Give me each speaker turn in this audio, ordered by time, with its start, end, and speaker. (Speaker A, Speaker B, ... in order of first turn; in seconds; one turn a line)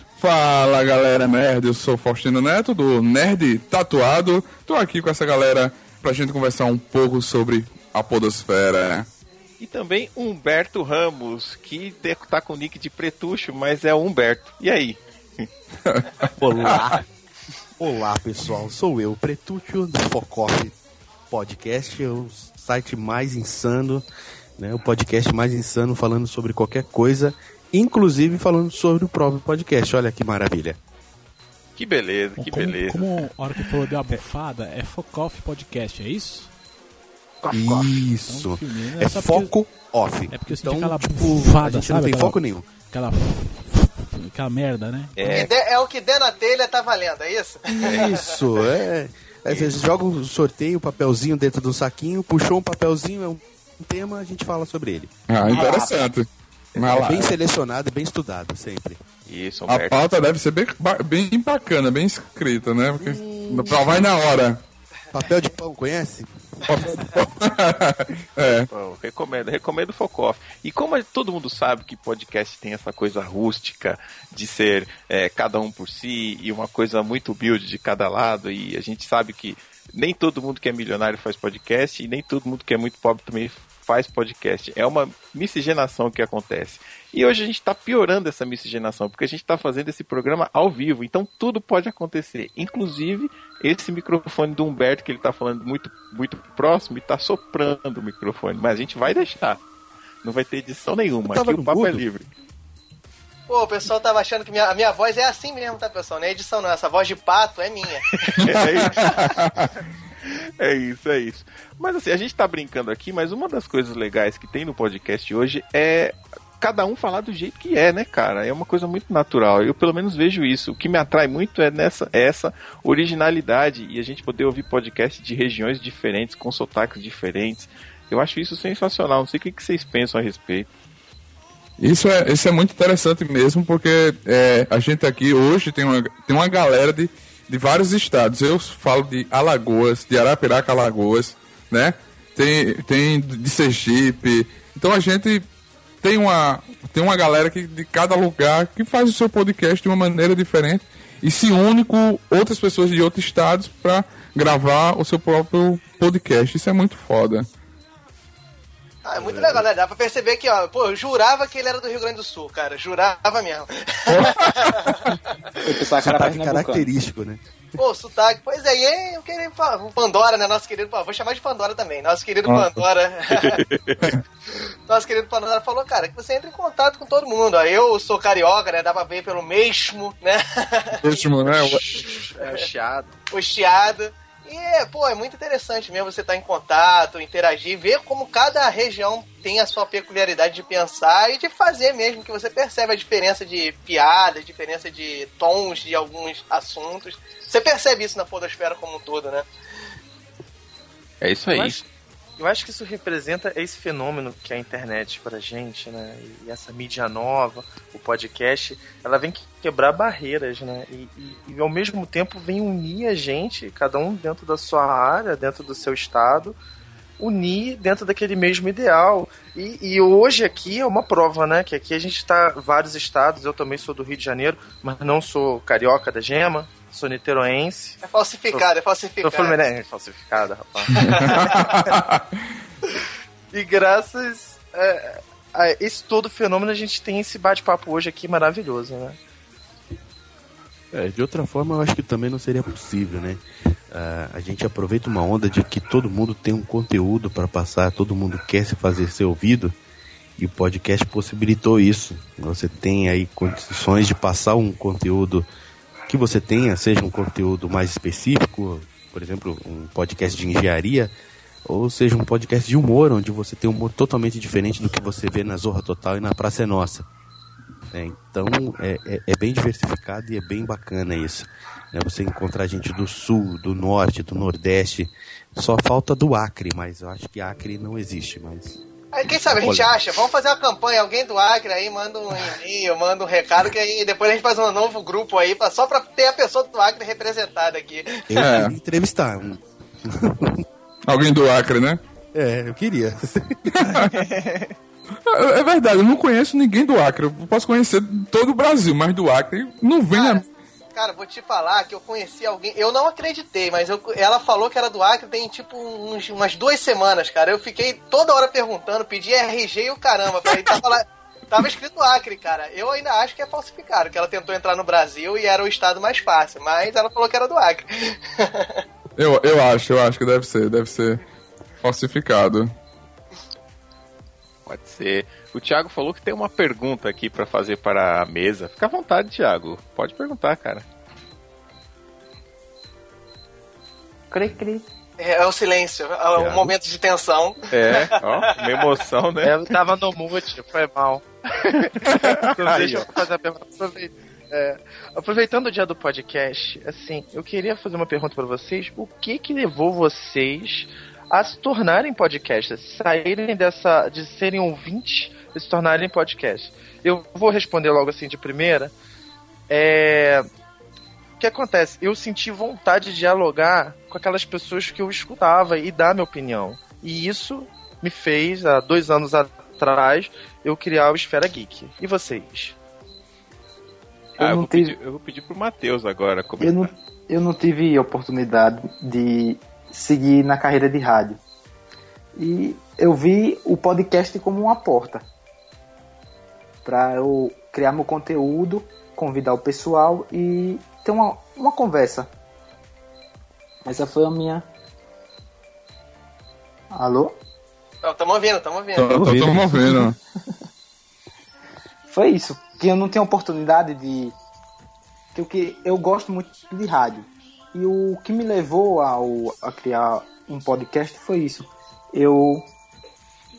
Speaker A: 0.2-9.1
Speaker B: 9.6-15.5
Speaker A: 15.9-16.3
Speaker C: 16.4-17.0
Speaker C: 17.8-20.8
Speaker C: 21.3-24.1
Speaker C: 24.6-30.8
Speaker B: 31.8-33.1
Speaker D: 32.4-36.5
Speaker D: 37.4-39.6
Speaker C: 37.5-42.7
Speaker D: 40.3-45.5
Speaker B: 45.2-45.5
Speaker E: 45.2-48.1
Speaker C: 47.7-55.6
Speaker A: 55.3-57.3
Speaker F: 55.5-56.0
Speaker C: 56.8-59.0
Speaker B: 59.3-60.0
Speaker A: 59.7-64.6
Speaker F: 63.0-63.7
Speaker C: 65.1-66.8
Speaker A: 66.7-68.7
Speaker B: 68.7-99.6
Speaker B: 100.2-102.3
Speaker C: 101.3-102.0
Speaker E: 103.5-108.4
Speaker A: 108.4-109.7
Speaker B: 108.5-109.4
Speaker B: 110.6-130.7
Speaker A: 131.8-145.5
Speaker A: 146.0-157.5
Speaker E: 159.0-165.2
Speaker C: 159.3-159.6
Speaker A: 164.1-165.0
Speaker F: 165.6-166.9
Speaker C: 166.0-167.4
Speaker E: 167.8-173.6
Speaker A: 172.5-172.8
Speaker B: 173.4-174.1
Speaker E: 174.9-181.2
Speaker A: 181.0-181.9
Speaker G: 181.6-183.1
Speaker E: 182.0-182.6
Speaker E: 183.3-199.5
Speaker B: 201.2-201.8
Speaker G: 201.5-201.8
Speaker G: 202.4-216.6
Speaker G: 217.2-228.0
Speaker E: 228.0-229.6
Speaker G: 229.2-230.9
Speaker E: 231.0-231.7
Speaker A: 231.2-232.2
Speaker G: 233.5-239.2
Speaker C: 240.9-249.7
Speaker C: 250.4-255.5
Speaker C: 256.1-261.1
Speaker C: 261.6-267.1
Speaker C: 267.9-278.8
Speaker E: 279.1-288.4
Speaker C: 279.5-280.0
Speaker C: 288.3-290.6
Speaker A: 288.4-288.8
Speaker A: 291.1-292.0
Speaker C: 292.4-293.7
Speaker A: 293.7-294.2
Speaker G: 294.2-294.7
Speaker A: 295.3-300.4
Speaker E: 300.1-318.8
Speaker A: 319.2-321.2
Speaker A: 321.8-322.7
Speaker B: 324.6-330.9
Speaker F: 334.3-334.9
Speaker E: 335.2-338.1
Speaker C: 336.3-336.8
Speaker B: 337.7-339.7
Speaker G: 339.4-358.9
Speaker B: 342.1-343.0
Speaker G: 359.7-360.5
Speaker G: 361.4-372.8
Speaker F: 374.4-375.0
Speaker B: 374.4-376.9
Speaker F: 376.6-381.4
Speaker F: 382.4-385.2
Speaker F: 386.9-392.3
Speaker F: 393.9-394.7
Speaker F: 396.9-397.3
Speaker E: 398.0-399.1
Speaker A: 398.9-400.2
Speaker C: 399.1-399.7
Speaker F: 399.8-400.1
Speaker F: 402.1-404.3
Speaker F: 405.3-412.6